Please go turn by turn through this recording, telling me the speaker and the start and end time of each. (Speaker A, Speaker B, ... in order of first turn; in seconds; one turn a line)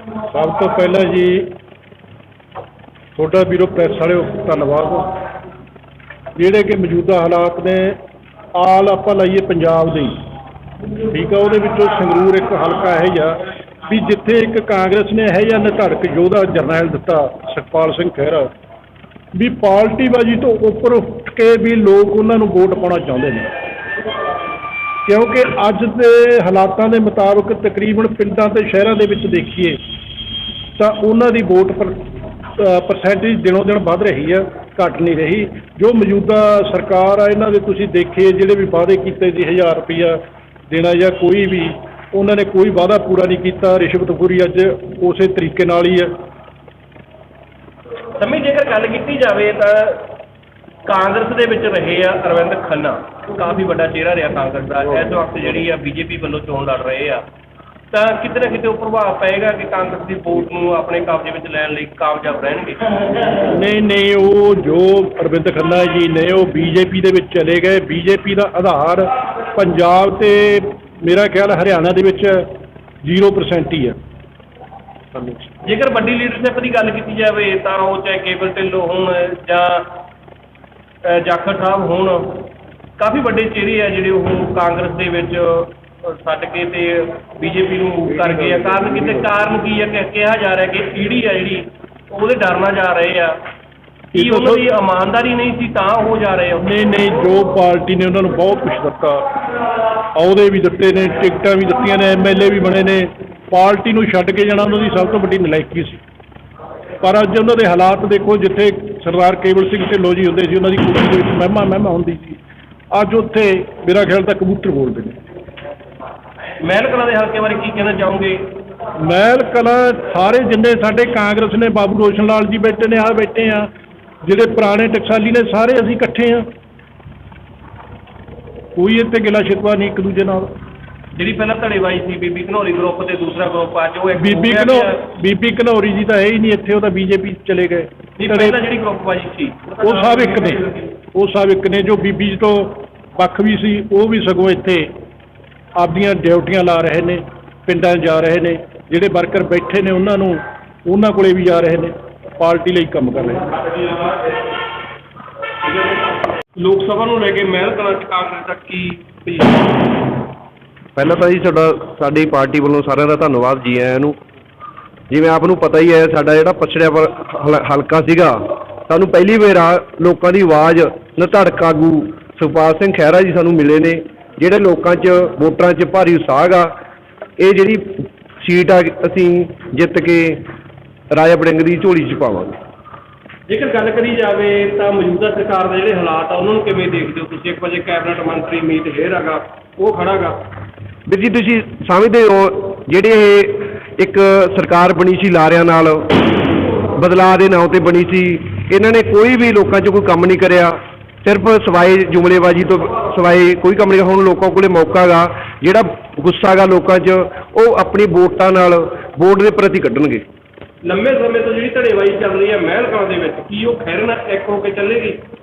Speaker A: 0.3-1.5
Speaker A: 3.2-5.1
Speaker A: 6.4-8.0
Speaker A: 8.6-10.2
Speaker A: 11.1-18.5
Speaker A: 19.4-23.5
Speaker A: 25.1-29.8
Speaker A: 30.8-32.0
Speaker A: 32.6-40.2
Speaker A: 40.7-46.1
Speaker B: 48.2-50.1
Speaker B: 50.9-57.2
Speaker B: 57.9-63.4
Speaker A: 63.5-72.5
Speaker A: 73.0-74.0
Speaker B: 75.6-80.0
Speaker B: 81.0-93.4
Speaker A: 94.1-94.7
Speaker B: 94.1-96.7
Speaker A: 96.6-99.3
Speaker A: 100.2-106.0
Speaker A: 107.0-112.4
Speaker A: 112.9-115.2
Speaker B: 116.6-118.4
Speaker A: 119.0-123.7
Speaker A: 124.2-126.5
Speaker A: 128.8-130.5
Speaker B: 131.2-135.0
Speaker A: 134.2-138.6
Speaker B: 138.2-140.8
Speaker A: 139.8-144.9
Speaker A: 145.8-153.5
Speaker B: 156.6-159.9
Speaker C: 161.0-164.2
Speaker C: 165.1-176.7
Speaker C: 177.4-180.5
Speaker C: 181.1-182.6
Speaker B: 183.5-190.4
Speaker C: 191.1-196.1
Speaker C: 196.9-210.2
Speaker B: 210.8-215.2